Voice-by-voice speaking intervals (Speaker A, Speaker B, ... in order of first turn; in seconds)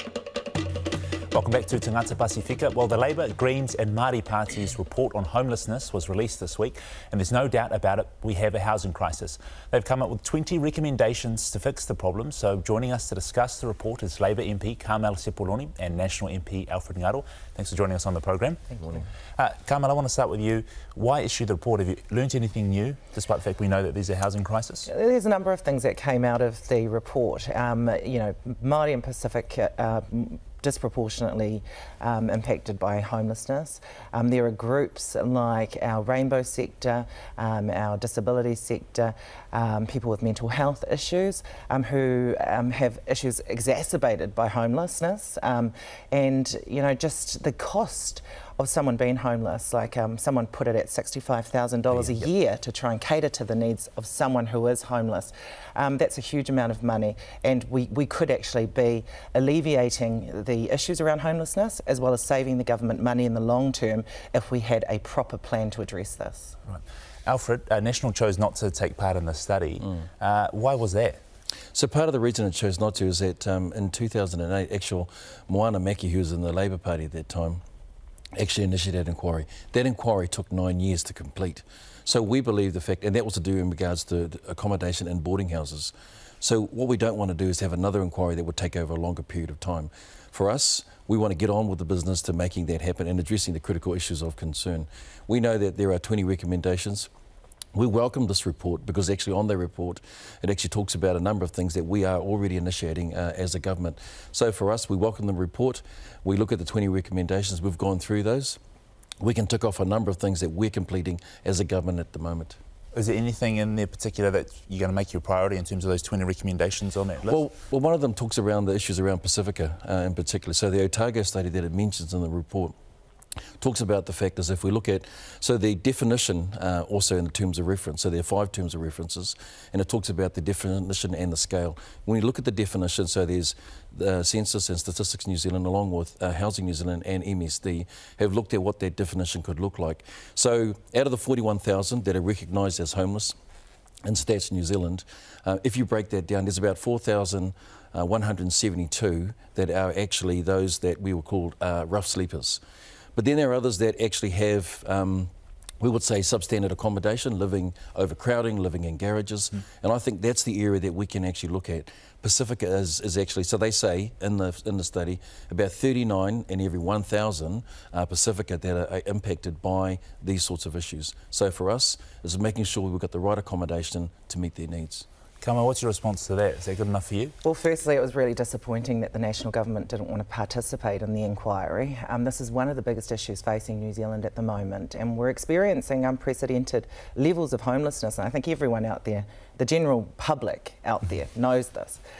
Speaker A: 1.3-18.6, 19.4-24.9, 66.7-71.2, 112.9-117.4, 175.4-177.3
Speaker B: 24.9-66.5, 177.4-192.0
Speaker C: 71.7-77.6, 78.3-97.1, 97.7-108.6, 109.2-112.6, 117.3-122.7, 123.6-143.3, 144.0-152.6, 153.2-175.1